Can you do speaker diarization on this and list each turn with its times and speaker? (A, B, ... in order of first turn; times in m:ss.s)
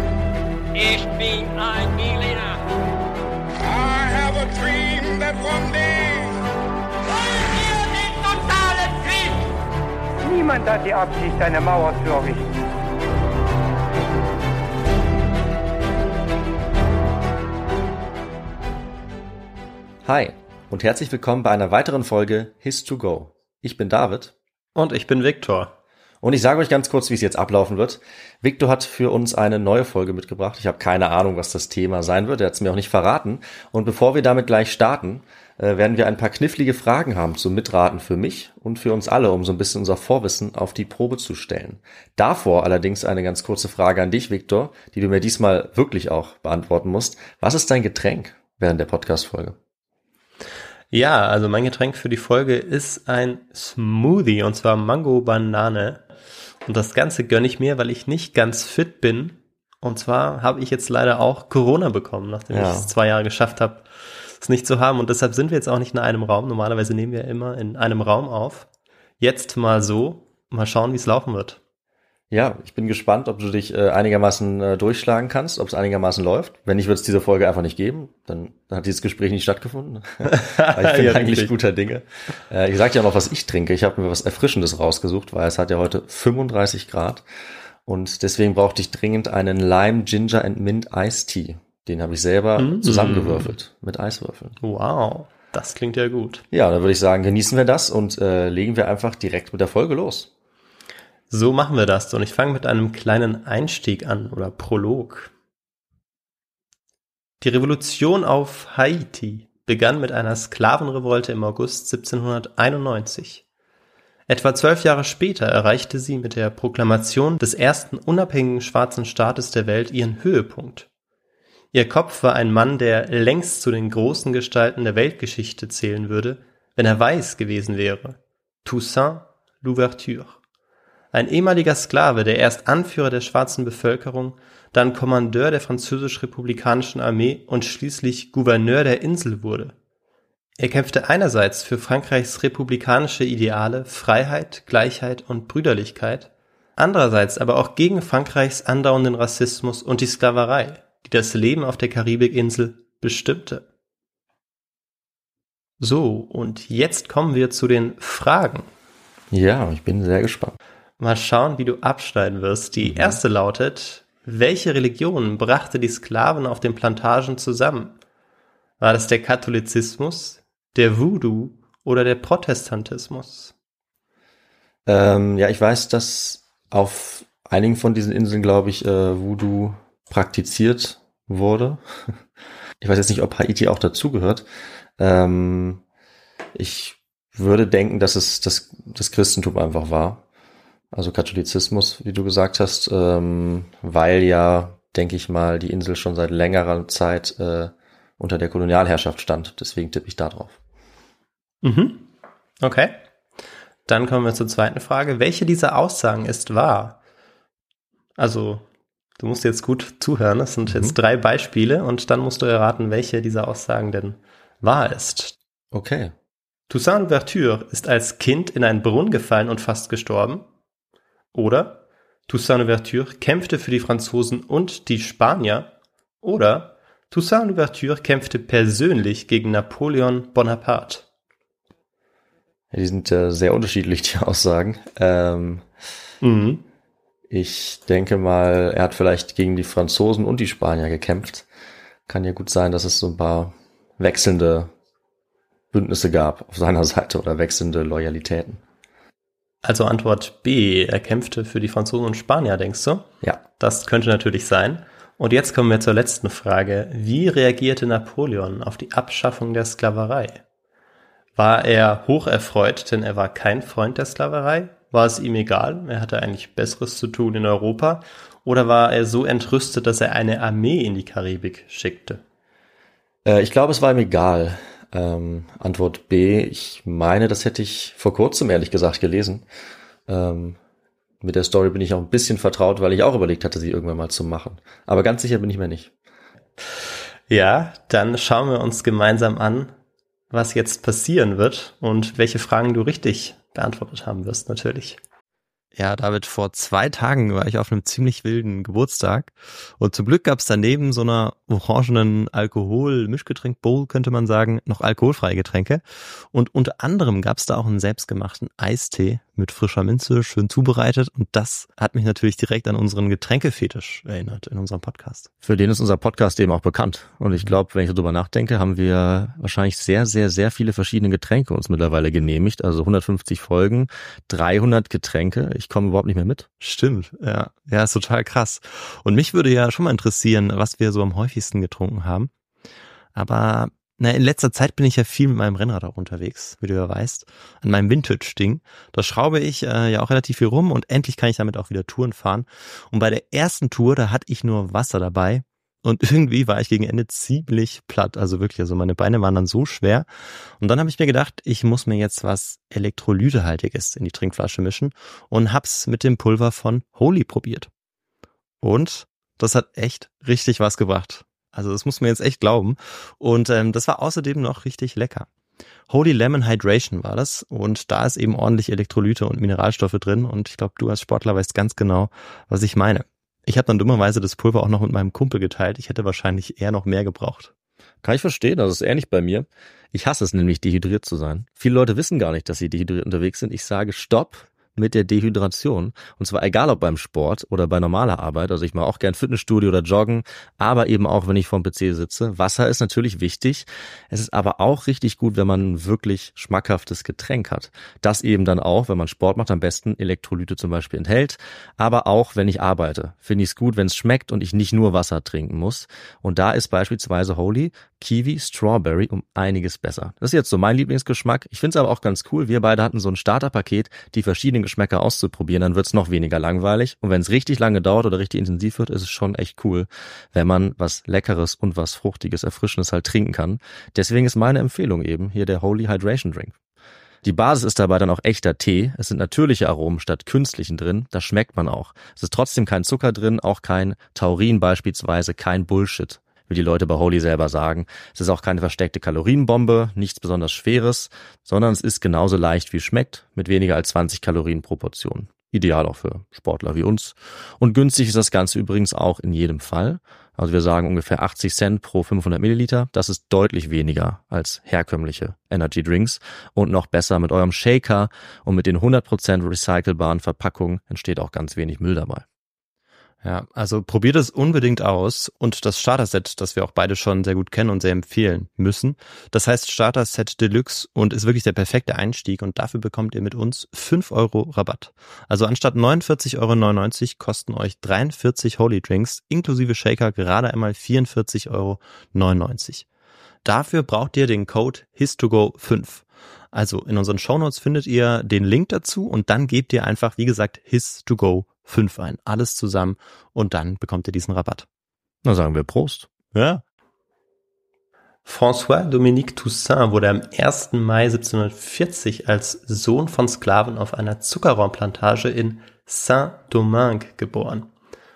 0:00.7-0:02.5 A
0:03.7-0:06.0 A
0:07.7-0:09.2 A
0:10.2-0:12.5 B
0:20.0-0:24.3 C
0:24.7-0:25.7 D
0:26.2-0:49.6 C
0:50.9-0:56.0 D
0:56.6-1:08.7 D
1:02.5-1:02.9 C
1:09.2-1:11.6 D
1:12.3-1:27.2 C
1:20.2-1:21.5 D
1:27.8-1:34.6 C
1:32.6-1:33.5 D
1:34.6-1:36.4 D
1:36.5-1:40.3 C
1:41.3-1:45.3 D
1:47.4-1:53.4 D
1:54.3-2:00.9 D
2:01.7-2:10.4 D
2:11.1-2:19.7 D
2:20.6-2:33.6 D
2:35.8-2:38.7 D
2:39.3-2:40.6 C
2:41.0-2:48.0 D
2:42.8-2:43.2 C
2:48.8-2:53.5 D
2:54.8-3:01.8 C
3:02.8-3:04.4 C
3:05.0-3:05.8 C
3:06.5-3:10.2 C
3:10.9-3:20.6 C
3:21.6-3:22.1 D
3:22.6-3:23.0 D
3:23.9-3:27.0 D
3:28.2-3:28.6 D
3:29.2-3:35.4 D
3:30.7-3:30.9 C
3:35.7-3:36.1 C
3:36.7-3:40.4 D
3:41.3-3:45.7 D
3:46.2-3:51.0 D
3:52.7-3:55.6 C
3:56.2-3:56.6 D
3:57.3-4:01.4 C
4:02.1-4:04.7 C
4:05.7-4:08.6 C
4:09.6-4:20.4 D
4:21.4-4:32.2 D
4:33.2-4:39.4 C
4:40.1-4:40.6 C
4:41.2-4:45.9 C
4:47.3-4:49.7 D
4:50.3-4:55.0 D
4:55.7-5:15.3 D
5:15.4-5:26.5 C
5:26.6-5:32.3 D
5:33.1-5:50.1 D
5:50.6-5:57.7 D
5:58.6-6:05.3 D
6:05.9-6:17.5 D
6:18.0-7:06.5 C
7:07.2-7:42.2 C
7:43.2-8:02.8 D
8:03.4-8:14.6 D
8:15.2-8:16.1 C
8:16.3-8:16.6 D
8:18.2-8:27.7 D